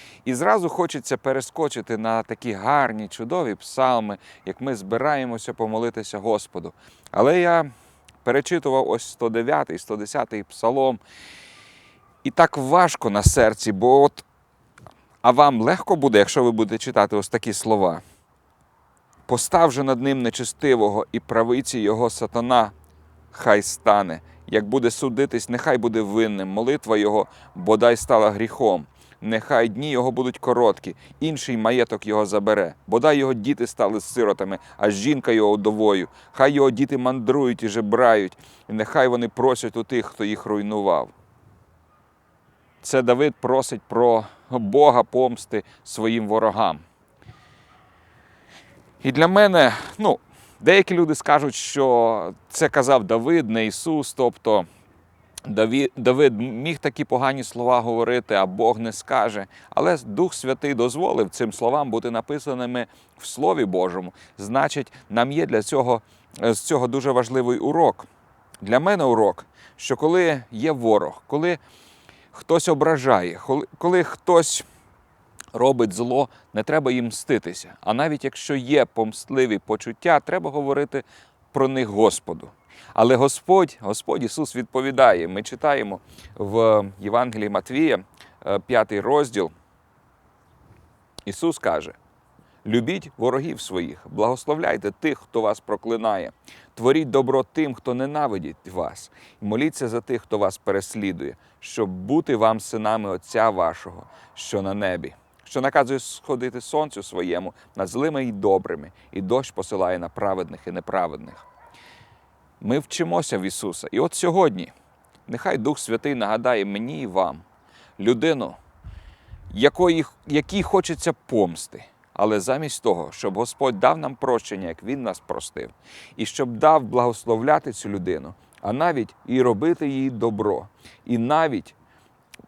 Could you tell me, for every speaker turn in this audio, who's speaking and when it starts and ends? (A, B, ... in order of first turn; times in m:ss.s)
0:00.2-0:07.7 A
0:08.2-0:11.0 A
0:12.2-0:14.2 A
0:15.2-0:18.0 A
0:19.3-0:22.7 A
0:23.3-0:41.1 A
0:42.8-0:46.8 A
0:49.0-0:54.6 A
0:55.4-1:08.1 A
1:08.6-1:11.6 A
1:12.3-1:14.6 A
1:15.5-1:29.5 A
1:31.3-1:32.0 A
1:32.6-1:51.4 A
1:52.6-1:54.7 A
1:55.3-1:57.4 A
1:58.0-1:58.6 A
1:59.5-2:11.7 A